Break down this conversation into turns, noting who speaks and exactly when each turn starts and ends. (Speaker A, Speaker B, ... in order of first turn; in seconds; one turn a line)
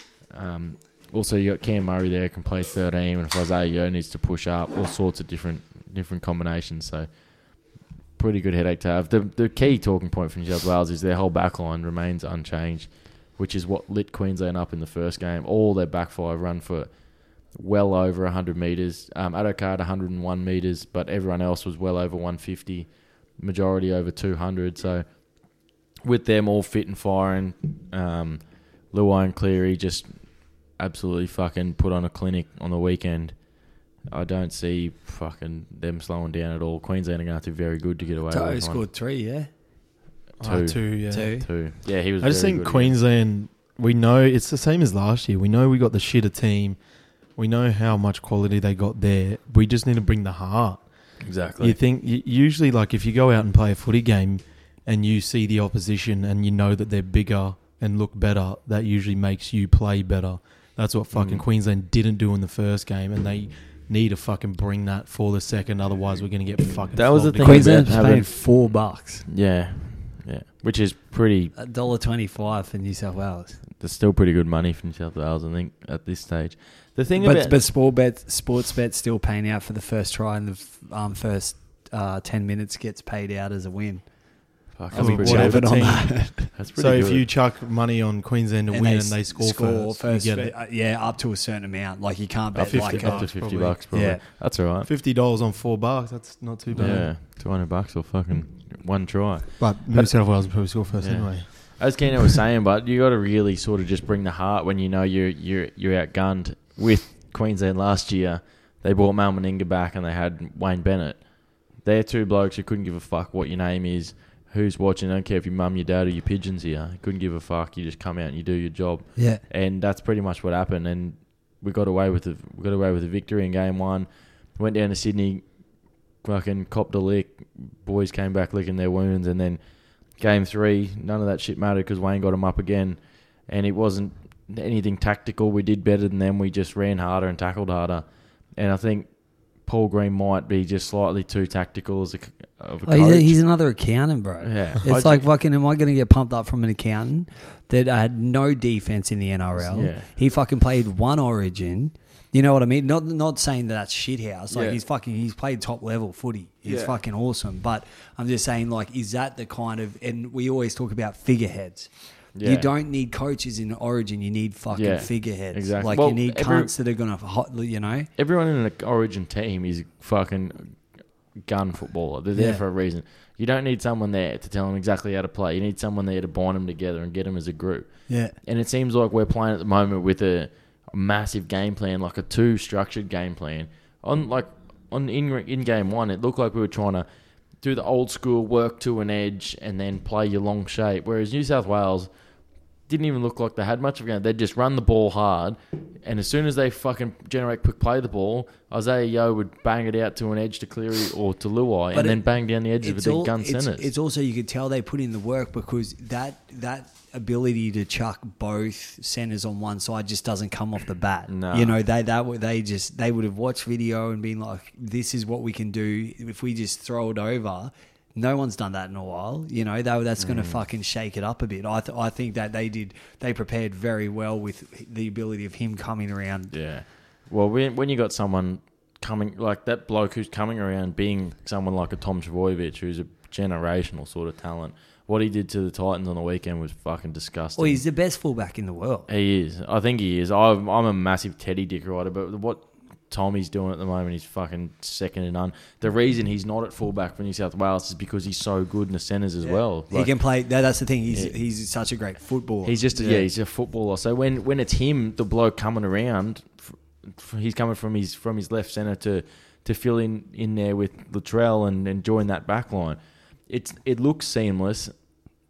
Speaker A: 0.3-25.2
Speaker A: 26.0-38.9
Speaker B: 38.3-39.5
Speaker C: 40.4-41.4
Speaker A: 40.4-42.9
Speaker B: 41.1-41.5
Speaker C: 42.2-46.8
Speaker C: 47.3-50.9
Speaker A: 51.2-51.8
Speaker C: 51.6-68.0
Speaker A: 61.1-61.4
Speaker A: 66.9-68.5
Speaker B: 67.4-69.2
Speaker A: 69.2-71.5
Speaker B: 71.5-73.6
Speaker A: 73.8-77.6
Speaker B: 77.2-84.3
Speaker A: 84.8-87.2
Speaker B: 84.9-86.4
Speaker C: 84.9-90.5
Speaker B: 88.7-94.2
Speaker A: 92.5-94.9
Speaker C: 92.6-93.8
Speaker C: 94.8-97.1
Speaker A: 96.7-125.5
Speaker C: 99.6-101.8
Speaker B: 119.2-119.4
Speaker A: 126.2-129.6
Speaker A: 130.1-143.4
Speaker B: 142.8-168.1
Speaker A: 144.4-145.3
Speaker A: 149.6-150.1
Speaker A: 154.5-154.8
Speaker A: 156.7-157.0
Speaker A: 162.3-162.7
Speaker A: 164.7-166.7
Speaker A: 168.2-187.1
Speaker B: 172.3-172.6
Speaker B: 178.1-178.3
Speaker A: 187.6-192.1
Speaker A: 192.9-203.9
Speaker B: 201.9-202.2
Speaker B: 202.8-226.5
Speaker A: 211.3-211.8
Speaker A: 220.2-220.6
Speaker A: 226.5-237.8
Speaker B: 237.6-239.1
Speaker A: 239.1-250.1
Speaker B: 249.4-253.3
Speaker A: 251.1-251.3
Speaker A: 252.6-263.0
Speaker A: 263.5-264.9